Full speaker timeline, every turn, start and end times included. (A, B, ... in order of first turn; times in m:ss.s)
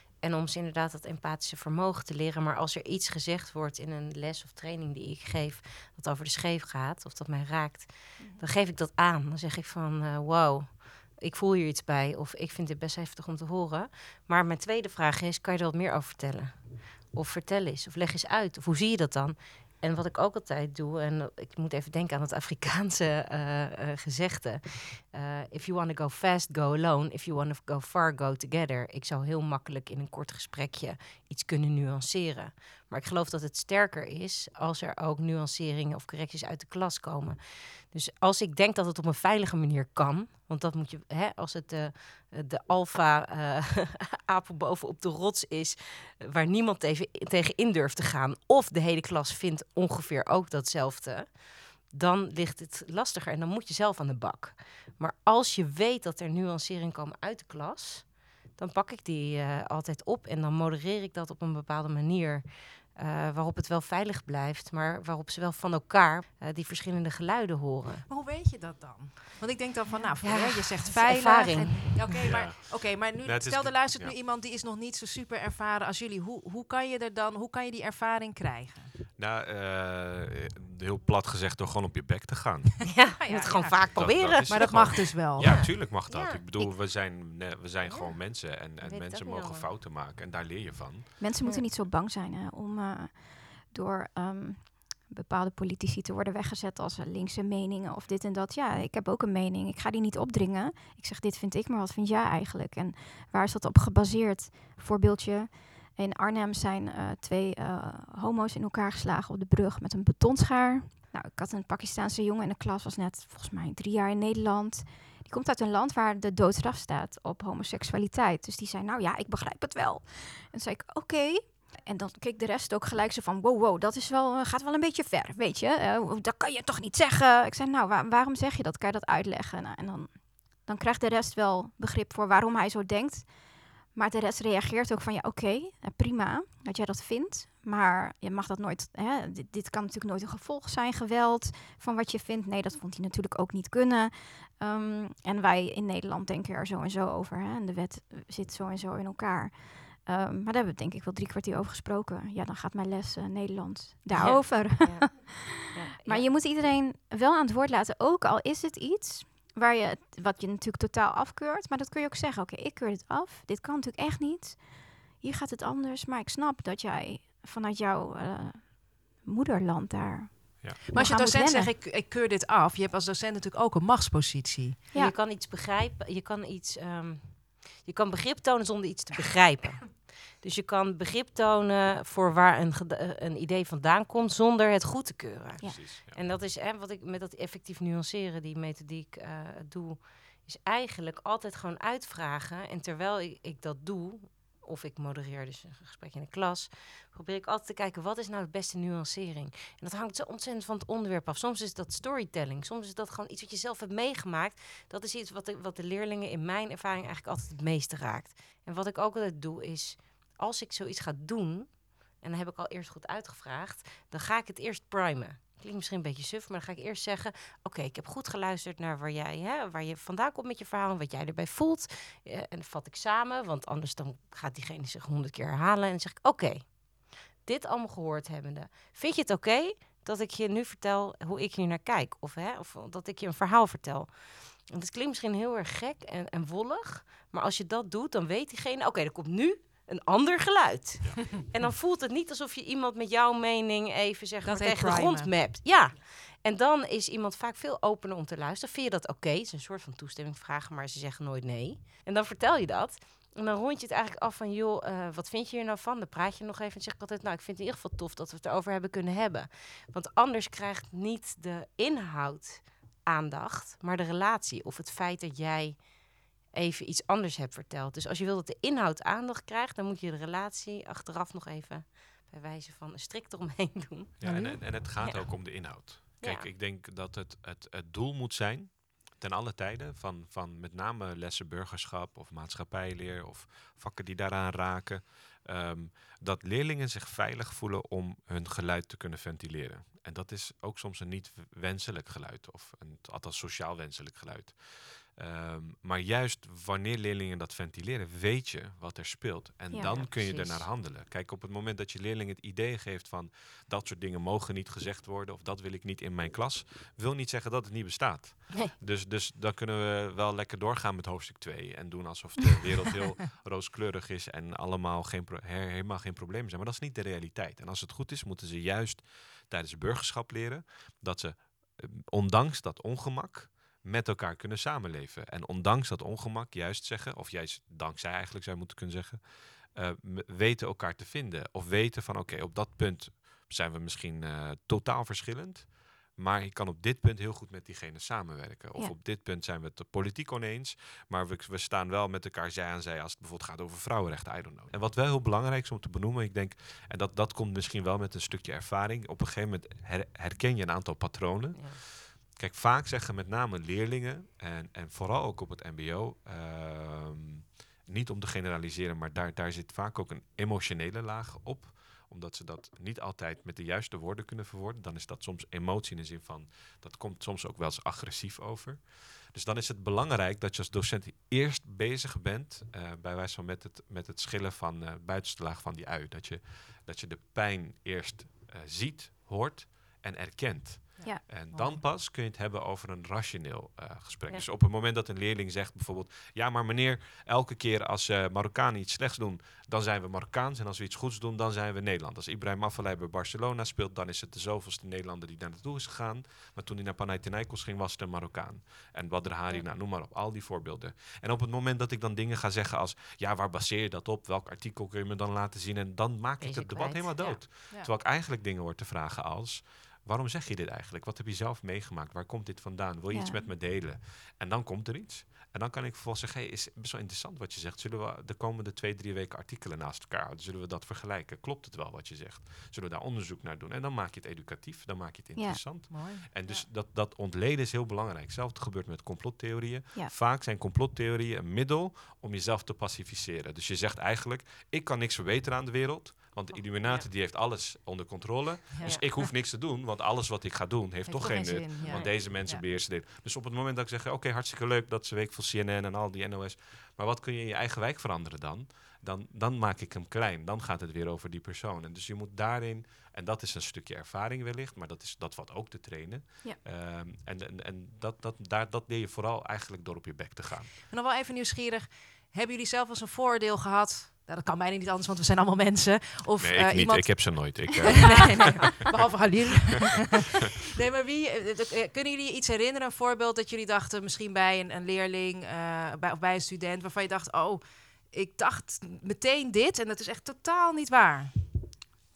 0:00.2-1:08.1 A
0:08.2-0:08.4 B
1:08.1-1:18.9 C
1:09.9-1:10.2 B
1:10.2-1:12.3 A
1:12.2-1:14.2 D
1:19.2-1:22.9 D
1:22.9-1:26.9 A
1:23.2-1:25.5 C
1:24.0-1:31.2 D
1:27.8-1:29.7 A
1:31.2-2:51.7 B
2:34.2-2:36.3 A
2:50.9-2:54.8 C
2:54.9-4:25.9 A
3:05.6-3:06.2 D
4:04.4-4:05.4 C
4:26.5-4:36.5 A
4:34.2-7:40.7 D
4:34.2-4:34.6 B
4:59.7-5:00.0 B
4:59.8-5:00.7 A
6:21.0-6:21.8 C
6:46.4-6:47.5 A
6:53.1-6:53.5 B
7:05.4-7:05.6 B
7:05.9-7:06.7 C
7:16.5-7:17.1 A
7:18.7-7:19.3 C
7:21.0-7:22.6 C
7:21.8-7:22.2 A
7:40.9-8:01.5 C
7:46.4-7:48.8 D